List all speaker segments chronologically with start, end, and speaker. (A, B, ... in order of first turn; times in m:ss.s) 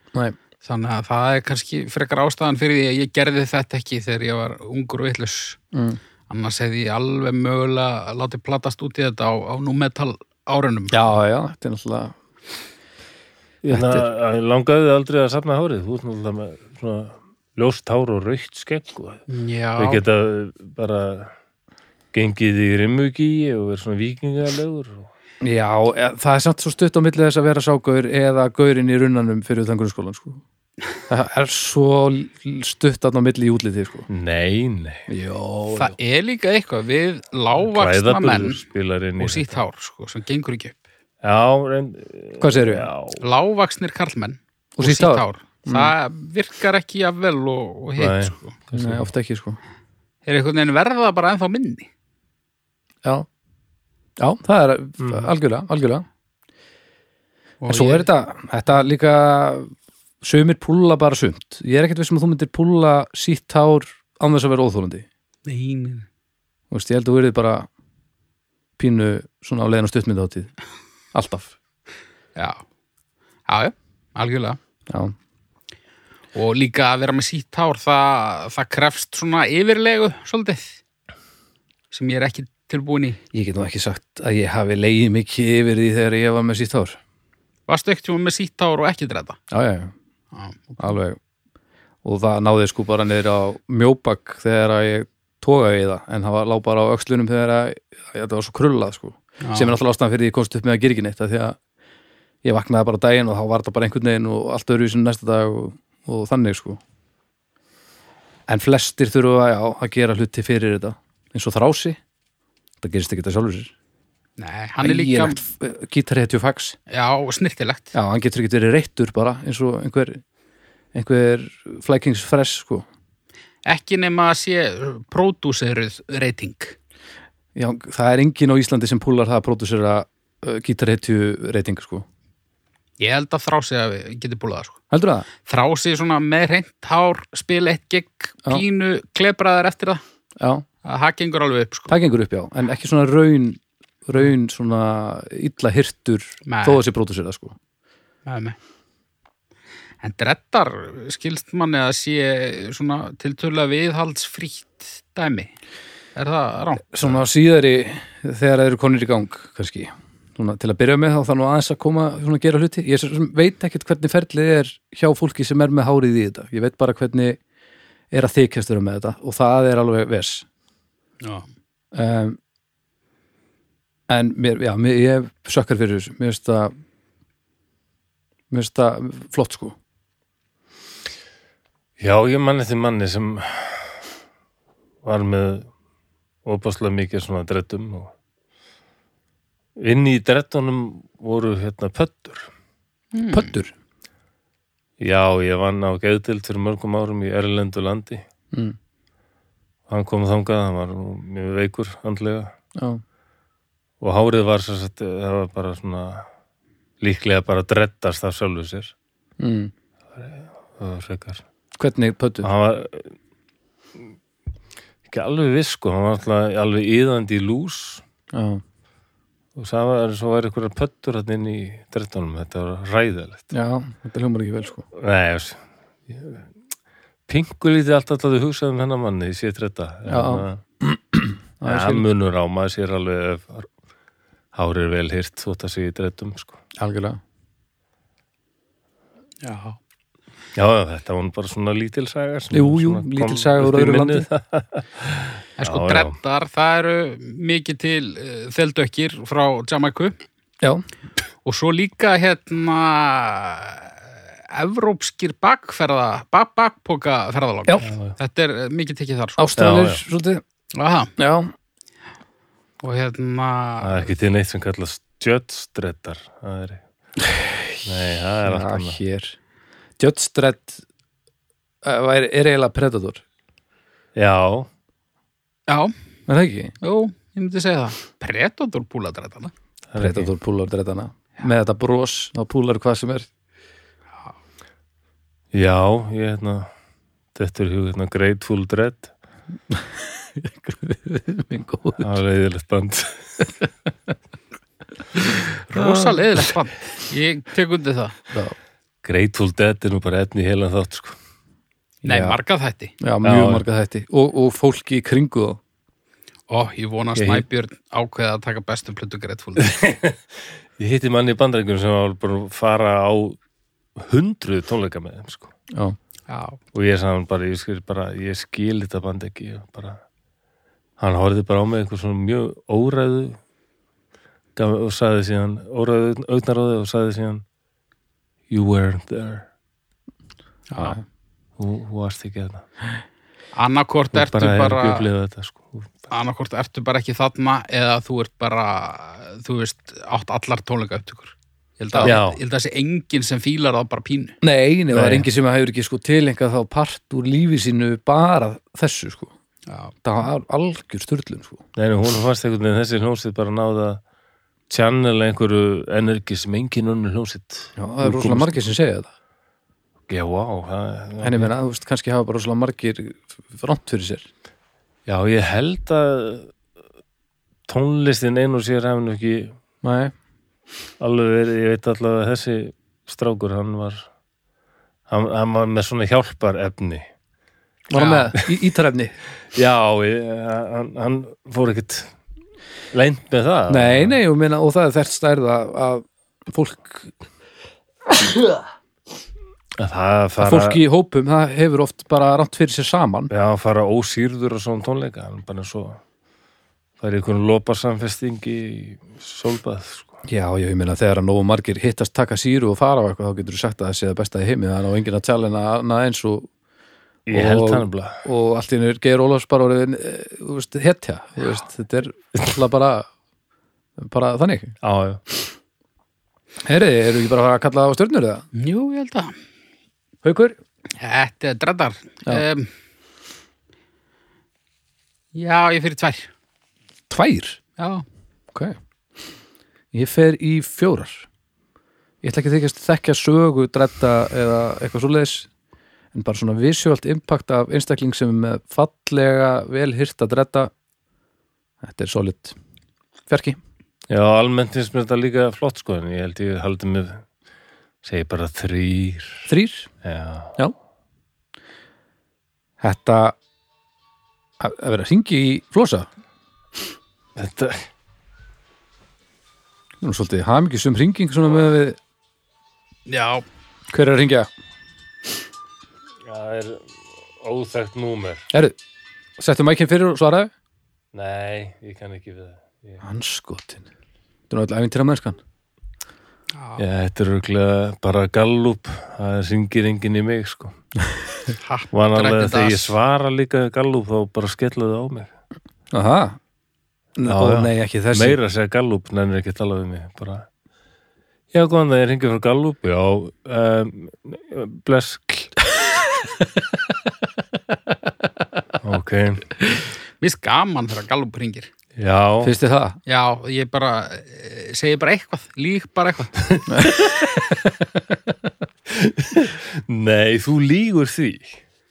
0:00.6-0:05.6 A
0:05.7-0:06.0 B
0:06.3-0:11.1 A
0:10.9-0:12.1 B
0:13.6-0:19.2 C
0:13.7-0:14.0 B
0:19.3-0:20.0 A
0:19.8-0:21.3 C
0:22.1-0:25.1 C
0:25.4-0:30.4 B
0:31.1-0:34.1 B
0:34.1-0:35.1 C
0:35.1-0:36.0 B
0:35.7-0:38.6 A
0:37.6-0:39.6 C
0:39.2-0:40.8 A
0:41.2-0:43.2 C
0:42.4-0:42.9 B
0:43.2-0:48.6 A
0:44.8-0:45.9 B
0:48.0-0:49.1 C
0:48.7-0:49.6 B
0:50.2-0:51.9 A
0:54.2-0:56.0 B
0:55.0-0:55.3 C
0:57.6-0:58.1 A
0:57.7-1:05.0 B
1:05.4-1:06.0 A
1:06.7-1:07.7 B
1:08.8-1:10.5 B
1:11.1-1:11.5 B
1:12.4-1:12.6 A
1:13.5-1:14.6 A
1:14.9-1:15.1 B
1:16.3-1:20.8 A
1:21.9-1:23.2 A
1:23.3-1:27.0 B
1:27.7-1:29.4 A
1:29.5-1:29.9 B
1:30.3-1:30.8 A
1:30.8-1:31.2 B
1:32.0-1:41.6 B
1:39.4-1:39.8 A
1:42.4-1:46.8 B
1:48.5-1:52.0 B
1:52.8-1:53.7 B
1:54.4-1:55.4 A
1:54.8-1:56.8 B
1:56.9-1:57.9 A
1:57.9-2:00.2 B
2:00.9-2:02.8 B
2:03.6-2:06.8 A
2:07.5-2:12.0 B
2:13.0-2:14.8 A
2:14.9-2:15.3 B
2:15.4-2:20.0 A
2:20.4-2:20.6 B
2:20.8-2:21.9 A
2:21.9-2:27.6 B
2:26.4-2:26.8 A
2:28.2-2:28.6 A
2:30.0-2:35.5 A
2:36.2-2:37.2 A
2:36.9-2:47.4 B
2:48.1-2:50.4 B
2:51.2-2:51.5 A
2:51.9-2:52.4 B
2:54.1-2:56.7 B
2:58.5-2:59.8 B
3:02.0-3:04.0 C
3:05.0-3:05.7 C
3:06.4-3:08.1 C
3:09.8-3:12.5 C
3:13.1-3:13.5 A
3:13.3-3:13.7 B
3:15.0-3:18.2 C
3:19.9-3:22.5 C
3:22.8-3:23.0 B
3:24.0-3:26.2 C
3:27.0-3:28.9 C
3:29.4-3:29.7 B
3:30.1-3:31.4 C
3:31.8-3:32.5 B
3:32.4-3:33.1 C
3:35.1-3:38.0 C
3:38.3-3:38.6 B
3:39.6-3:43.5 C
3:43.5-3:44.8 B
3:44.9-3:46.5 C
3:47.3-3:50.6 C
3:50.1-3:52.0 B
3:51.6-3:53.7 C
3:54.5-3:56.6 C
3:56.8-3:57.2 B
3:59.4-3:59.8 A
4:00.5-4:06.1 C
4:02.5-4:04.3 B
4:05.6-4:10.2 A
4:11.4-4:14.0 A
4:14.5-4:19.4 A
4:17.8-4:18.2 C
4:19.4-4:20.4 B
4:19.6-4:20.0 C
4:20.7-4:21.1 A
4:21.2-4:21.5 B
4:22.8-4:24.1 A
4:23.8-4:26.8 C
4:27.8-4:29.0 C
4:28.4-4:29.4 B
4:30.0-4:30.8 B
4:31.8-4:33.2 B
4:34.2-4:34.7 C
4:35.7-4:35.9 A
4:36.3-4:36.7 B
4:36.8-4:39.5 A
4:39.9-4:40.3 C
4:40.0-4:43.3 B
4:45.5-4:46.7 C
4:47.3-4:49.1 C
4:49.7-4:52.0 B
4:52.0-4:53.4 C
4:55.1-4:56.2 B
4:55.7-4:58.2 A
4:59.0-5:01.2 C
5:02.0-5:02.4 B
5:02.0-5:02.9 A
5:03.0-5:05.6 B
5:03.2-5:03.6 C
5:06.5-5:09.8 A
5:07.2-5:07.4 C
5:09.6-5:10.2 C
5:10.8-5:13.4 C
5:14.0-5:15.5 C
5:16.3-5:16.6 A
5:16.7-5:20.0 C
5:21.0-5:23.4 C
5:24.6-5:27.4 C
5:28.5-5:29.4 C
5:30.7-5:31.0 A
5:31.6-5:32.6 C
5:33.6-5:35.1 A
5:34.1-5:35.9 C
5:36.1-5:44.3 A
5:42.0-5:42.4 C
5:44.4-5:49.3 B
5:44.9-5:45.3 C
5:49.7-5:49.9 A
5:50.0-5:51.6 B
5:51.8-5:54.0 C
5:54.7-5:58.6 C
5:57.8-5:59.1 B
6:00.1-6:01.5 C
6:01.2-6:04.2 B
6:05.0-6:06.5 C
6:07.7-6:09.5 C
6:09.8-6:10.1 B
6:11.0-6:14.1 C
6:15.1-6:17.0 C
6:17.9-6:19.2 B
6:17.9-6:18.3 A
6:19.5-6:22.1 C
6:22.9-6:24.2 C
6:23.7-6:27.1 B
6:29.8-6:30.8 C
6:30.4-6:33.3 B
6:33.3-6:36.0 C
6:37.0-6:40.1 C
6:40.2-6:46.5 B
6:47.3-6:48.2 C
6:47.3-6:53.1 B
6:54.0-6:54.7 B
6:54.8-6:55.2 C
6:56.6-6:58.4 B
6:58.5-6:59.3 A
7:00.2-7:00.6 B
7:01.0-7:02.7 A
7:05.3-7:06.3 A
7:07.1-7:07.6 B
7:07.8-7:08.0 A
7:09.9-7:11.3 B
7:12.2-7:15.5 B
7:16.1-7:20.7 B
7:21.8-7:22.6 B
7:23.3-7:23.6 B
7:24.1-7:27.2 C
7:28.0-7:29.5 C
7:29.5-7:29.9 B
7:30.0-7:30.6 C
7:32.8-7:33.4 B
7:34.6-7:36.1 B
7:37.4-7:37.9 C
7:40.0-7:42.0 B
7:43.1-7:43.4 A
7:43.9-7:44.5 B
7:46.2-7:48.5 C
7:48.5-7:48.8 B
7:49.4-7:50.5 B
7:51.1-7:53.0 C
7:53.0-7:53.8 B
7:54.5-7:55.4 B
7:56.5-7:56.8 A
7:56.8-8:00.7 C
8:01.6-8:02.9 A
8:01.9-8:05.3 C
8:05.9-8:06.4 B
8:07.2-8:08.4 B
8:07.2-8:10.4 C
8:11.5-8:15.6 C
8:18.8-8:19.6 C
8:20.2-8:21.7 A
8:22.0-8:22.5 C
8:22.4-8:23.0 B
8:23.0-8:26.3 A
8:26.7-8:27.1 B
8:28.9-8:31.6 C